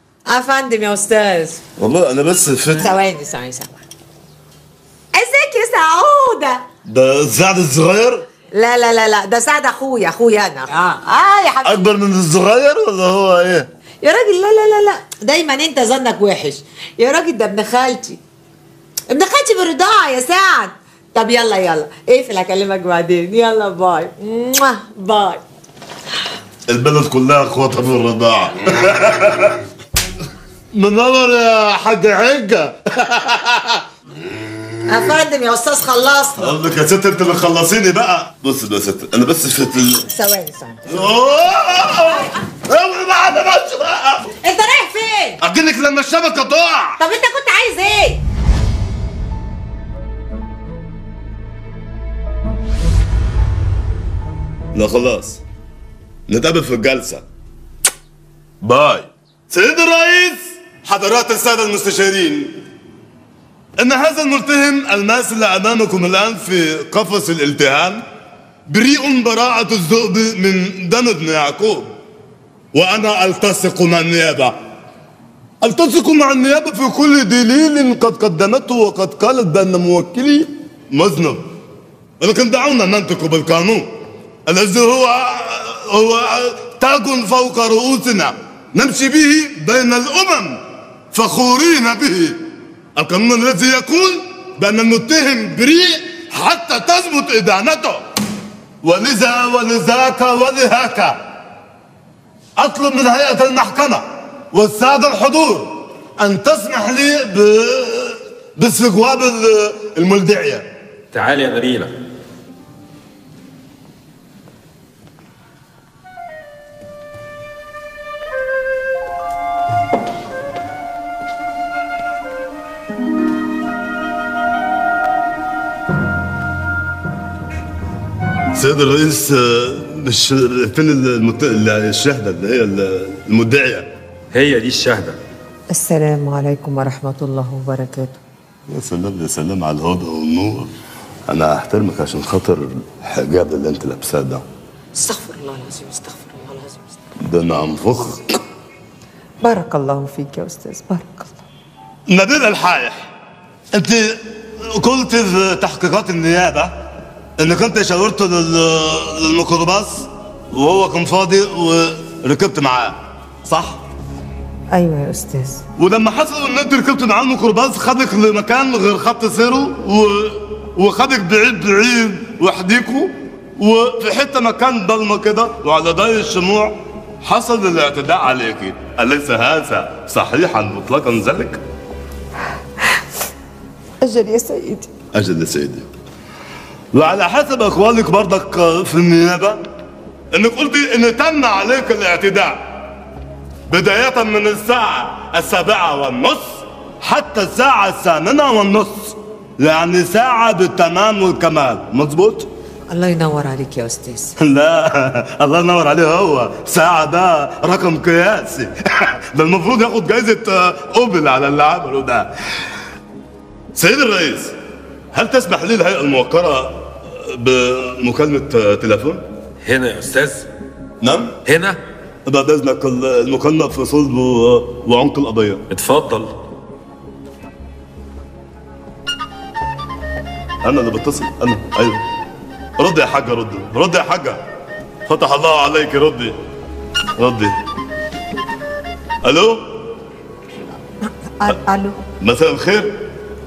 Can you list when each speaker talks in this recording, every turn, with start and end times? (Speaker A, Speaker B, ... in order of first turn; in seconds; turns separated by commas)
Speaker A: 0.3-1.6, Speaker B: 1.8-3.0, Speaker A: 2.8-3.8, Speaker A: 5.1-6.6, Speaker B: 6.8-8.3, Speaker A: 8.5-11.8, Speaker B: 11.6-13.7, Speaker A: 14.0-18.2, Speaker A: 19.1-25.4, Speaker B: 26.7-29.6, Speaker B: 30.7-33.8, Speaker A: 34.9-36.5, Speaker B: 36.4-40.1, Speaker A: 40.1-41.1, Speaker B: 40.9-44.3, Speaker A: 44.4-45.4, Speaker B: 45.4-47.0, Speaker A: 47.0-48.2, Speaker B: 54.7-55.4, Speaker B: 56.3-57.2, Speaker B: 58.6-62.6, Speaker B: 63.8-68.0, Speaker B: 68.7-71.9, Speaker B: 72.7-74.5, Speaker B: 75.6-81.5, Speaker B: 82.2-83.9, Speaker B: 84.5-92.4, Speaker B: 93.0-98.0, Speaker B: 98.8-101.2, Speaker B: 102.6-110.6, Speaker C: 111.1-111.9, Speaker B: 128.5-133.9, Speaker C: 134.3-135.2, Speaker A: 135.7-138.2, Speaker B: 138.7-140.7, Speaker B: 141.3-144.4, Speaker A: 144.9-147.0, Speaker B: 147.2-148.4, Speaker A: 149.4-151.4, Speaker B: 152.1-153.1, Speaker B: 153.7-156.8, Speaker B: 157.4-163.8, Speaker A: 164.7-165.6, Speaker B: 165.8-181.6, Speaker A: 184.0-184.9, Speaker B: 185.1-185.9, Speaker B: 186.9-189.7, Speaker B: 190.3-192.6, Speaker B: 193.7-202.5, Speaker A: 202.9-204.3, Speaker B: 204.4-212.3, Speaker B: 213.7-214.5, Speaker B: 215.1-219.2, Speaker C: 219.6-220.5, Speaker B: 221.0-221.4, Speaker C: 221.4-221.8, Speaker B: 222.2-225.6, Speaker C: 225.7-226.3, Speaker B: 230.6-232.0, Speaker B: 232.8-234.4, Speaker B: 235.1-236.4, Speaker B: 237.2-237.6, Speaker B: 239.2-239.8, Speaker A: 241.0-242.0, Speaker B: 242.2-242.9